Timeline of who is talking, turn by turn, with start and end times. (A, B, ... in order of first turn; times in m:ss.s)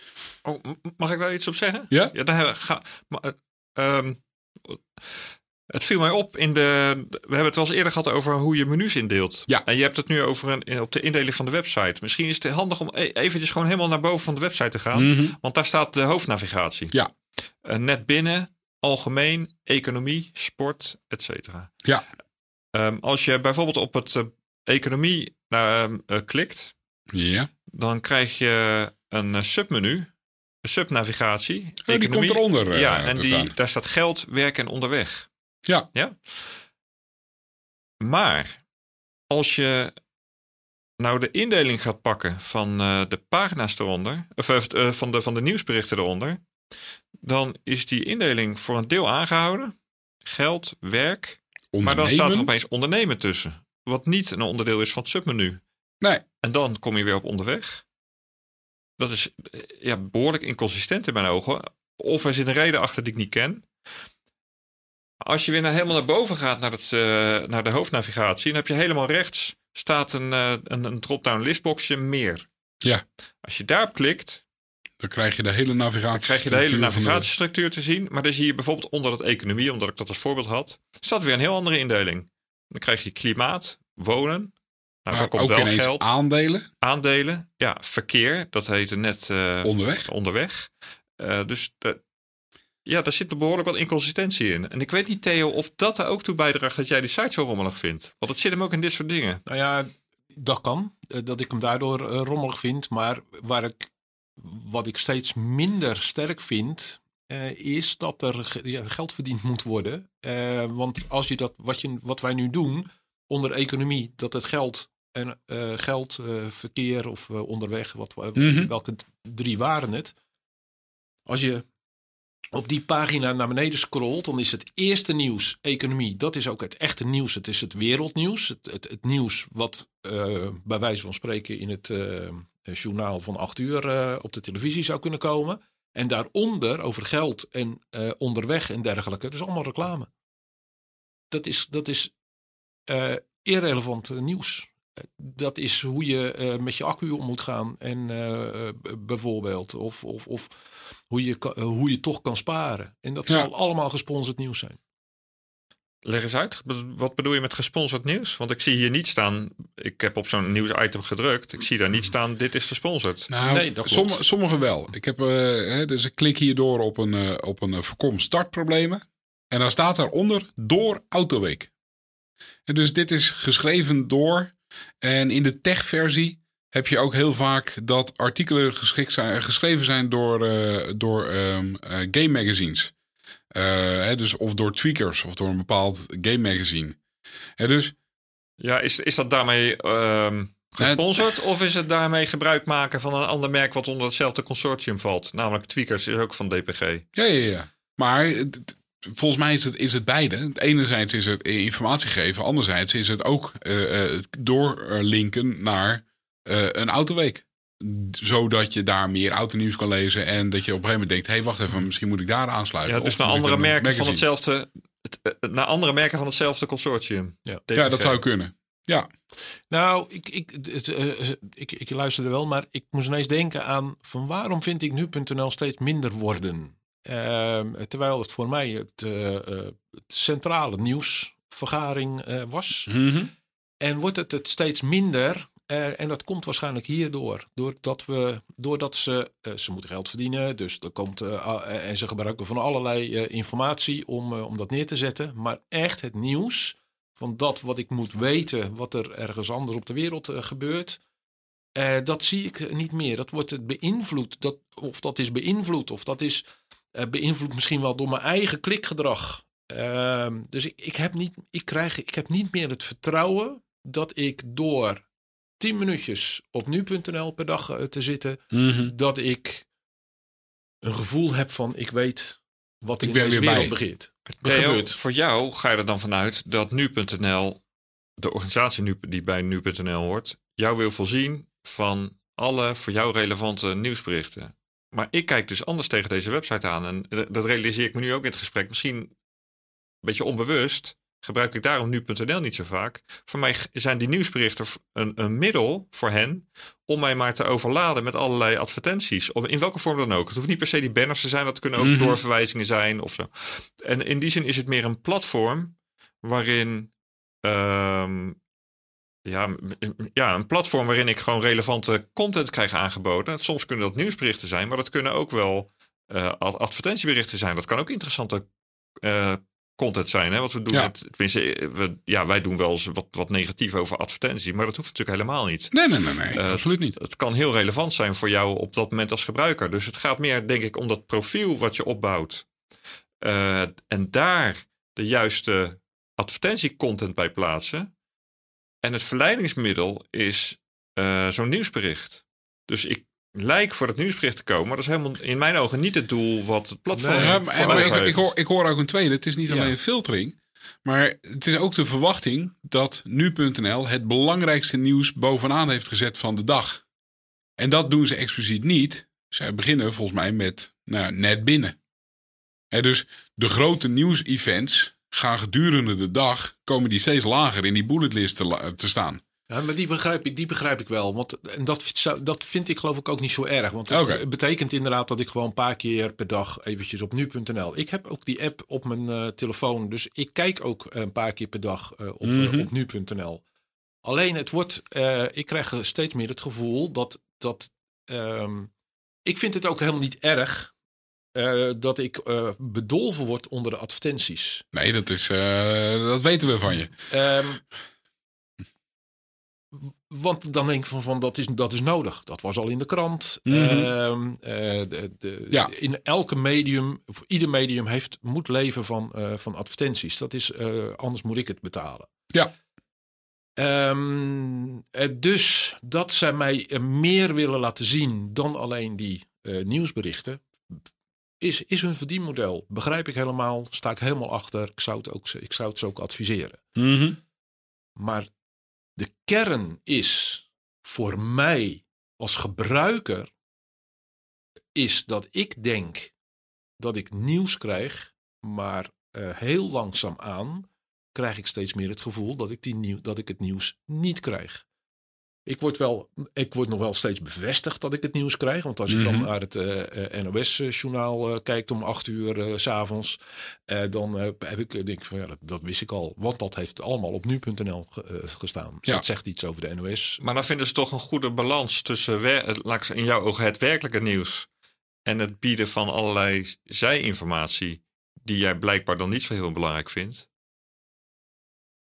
0:00.4-0:17.0 A
0:14.9-0:15.4 B
0:17.6-0:21.7 A
0:22.7-0:26.7 A
0:27.1-0:27.5 B
0:27.7-0:30.1 A
0:30.6-0:35.3 A
0:31.8-0:33.5 B
0:35.9-0:36.4 A
0:38.0-0:38.6 A
0:39.3-0:39.9 A
0:41.0-0:46.4 A
0:47.2-0:55.6 A
0:51.7-0:52.5 B
0:56.4-0:57.8 A
0:59.0-1:03.6 A
1:05.2-1:12.5 A
1:13.4-1:14.4 A
1:15.0-1:17.2 B
1:16.1-1:24.5 A
1:25.0-1:26.1 A
1:25.1-1:26.6 B
1:26.8-1:32.0 A
1:29.6-1:30.1 B
1:32.8-1:39.4 A
1:39.4-2:00.1 C
1:58.4-1:58.7 B
2:01.3-2:01.7 C
2:02.5-2:20.1 C
2:21.3-2:22.1 C
2:22.9-2:30.5 C
2:31.1-2:34.8 C
2:36.0-2:43.3 A
2:43.3-2:51.7 B
2:43.4-2:44.2 C
2:52.7-3:02.9 B
3:03.5-3:07.0 B
3:07.6-3:07.9 B
3:08.6-3:17.0 A
3:17.1-3:34.2 B
3:32.8-3:38.2 A
3:37.8-3:39.1 B
3:39.7-3:53.0 C
3:52.9-3:53.3 B
3:53.8-4:11.0 C
4:11.8-4:25.0 C
4:25.6-4:29.7 C
4:28.5-4:28.9 B
4:30.8-4:35.0 C
4:33.0-4:33.8 B
4:34.3-4:37.6 A
4:38.2-4:49.1 A
4:50.0-5:06.9 A
5:01.8-5:02.2 B
5:07.4-5:08.4 A
5:09.2-5:18.4 A
5:19.0-5:25.8 A
5:25.7-5:26.9 B
5:26.3-5:32.5 A
5:33.2-5:37.9 A
5:38.8-5:48.3 A
5:46.9-5:48.0 C
5:47.2-5:56.8 B
5:49.5-5:49.7 C
5:57.6-6:01.8 B
6:02.7-6:09.2 B
6:09.5-6:23.4 C
6:13.9-6:14.2 B
6:22.2-6:22.7 B
6:24.0-6:28.7 C
6:29.2-6:30.7 C
6:31.3-6:34.6 C
6:34.7-6:36.9 B
6:37.1-6:37.6 C
6:39.8-6:52.1 C
6:43.4-6:43.9 B
6:53.6-7:00.8 C
7:01.4-7:06.7 C
7:06.8-7:07.2 B
7:08.0-7:08.3 C
7:09.0-7:13.3 C
7:14.7-7:16.1 C
7:16.8-7:24.6 C
7:25.4-7:40.2 C
7:28.9-7:29.3 B
7:40.2-7:44.5 A
7:45.0-7:50.2 A